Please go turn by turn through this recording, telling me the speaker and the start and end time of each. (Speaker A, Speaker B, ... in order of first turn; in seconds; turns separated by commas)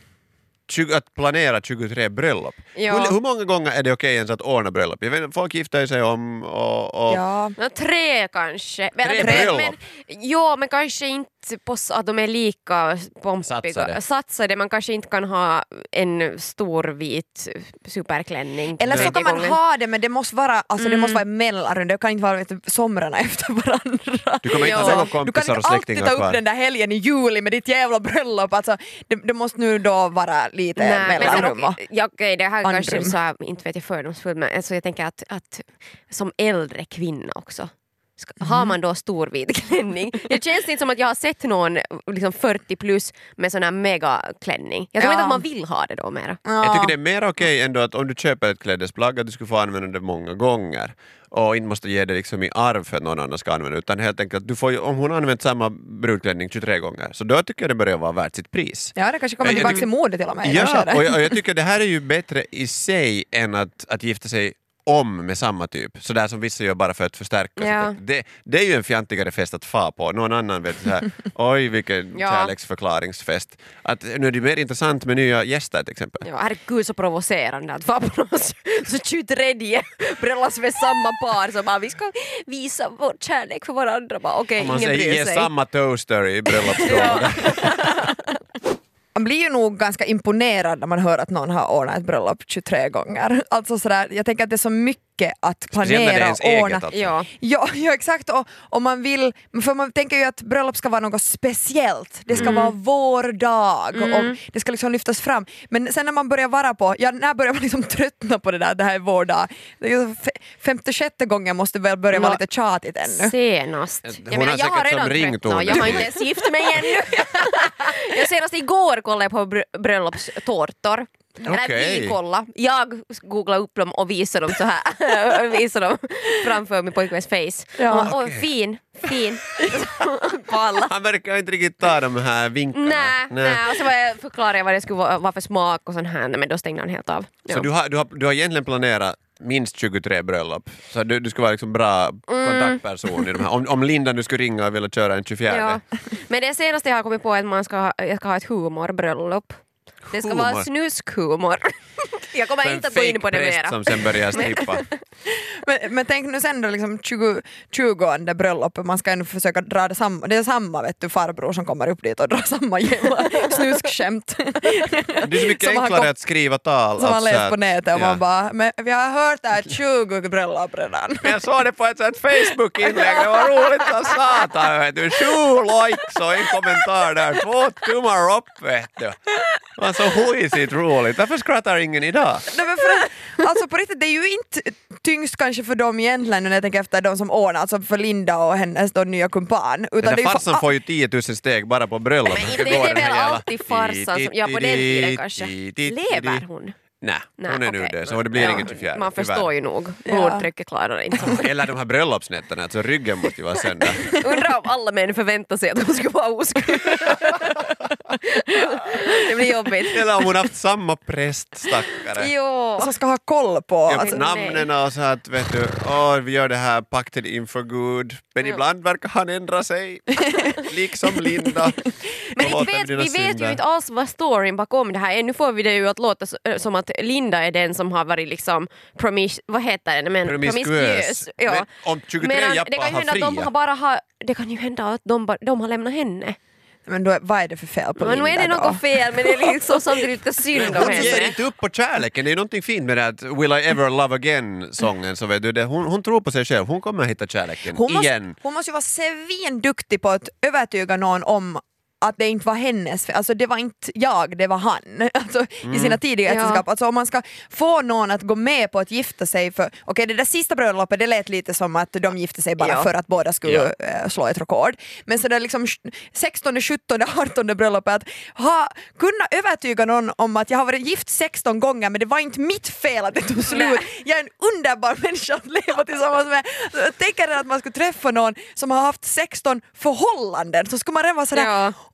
Speaker A: 0.7-7.2, Speaker B: 2.7-3.2, Speaker C: 7.1-7.5, Speaker B: 7.6-19.6, Speaker A: 9.0-9.8, Speaker C: 9.2-9.5, Speaker A: 13.4-14.0, Speaker C: 18.8-31.8, Speaker A: 18.9-19.2, Speaker B: 20.8-21.2, Speaker A: 24.4-26.4, Speaker B: 24.6-25.1, Speaker B: 30.8-46.4, Speaker C: 32.6-33.1, Speaker C: 38.4-38.8, Speaker C: 45.0-45.4, Speaker C: 46.5-47.0, Speaker A: 46.6-59.9, Speaker C: 58.9-61.4, Speaker A: 60.4-76.3, Speaker B: 67.6-68.0, Speaker B: 72.1-72.5, Speaker B: 76.2-85.5, Speaker A: 84.6-88.0, Speaker B: 86.5-88.2, Speaker C: 89.1-113.3, Speaker A: 95.8-97.2, Speaker B: 96.9-97.3, Speaker A: 102.3-102.6, Speaker B: 102.4-102.7, Speaker B: 103.9-104.4, Speaker B: 112.1-112.4, Speaker B: 113.0-130.9, Speaker A: 114.0-116.2, Speaker A: 121.4-122.2, Speaker C: 127.8-128.1, Speaker A: 127.9-128.5, Speaker A: 130.8-133.9, Speaker B: 132.8-137.7, Speaker A: 137.5-145.8, Speaker B: 142.3-143.4, Speaker B: 145.5-155.0, Speaker A: 150.1-150.7, Speaker A: 152.6-154.8, Speaker C: 155.3-166.1, Speaker A: 165.2-168.2, Speaker C: 167.0-171.4, Speaker A: 171.2-179.2, Speaker A: 179.8-182.5, Speaker C: 182.5-190.7, Speaker A: 190.0-196.4, Speaker B: 192.3-196.8, Speaker A: 197.0-199.5, Speaker B: 197.4-201.4, Speaker C: 198.4-198.7, Speaker C: 200.1-200.4, Speaker A: 201.2-204.1, Speaker B: 203.5-207.7, Speaker B: 208.3-210.3, Speaker A: 209.9-212.3, Speaker B: 212.2-212.9, Speaker C: 212.8-214.2, Speaker A: 213.9-223.6, Speaker B: 213.9-214.7, Speaker C: 221.1-221.9, Speaker B: 222.3-231.7, Speaker A: 230.2-233.5, Speaker B: 232.2-236.4, Speaker C: 236.8-239.6, Speaker B: 237.9-241.4, Speaker A: 240.5-248.4, Speaker C: 240.6-241.3, Speaker C: 247.7-281.6, Speaker A: 255.6-256.0, Speaker B: 256.2-256.6, Speaker B: 262.6-262.9, Speaker B: 273.5-273.9, Speaker B: 281.3-281.7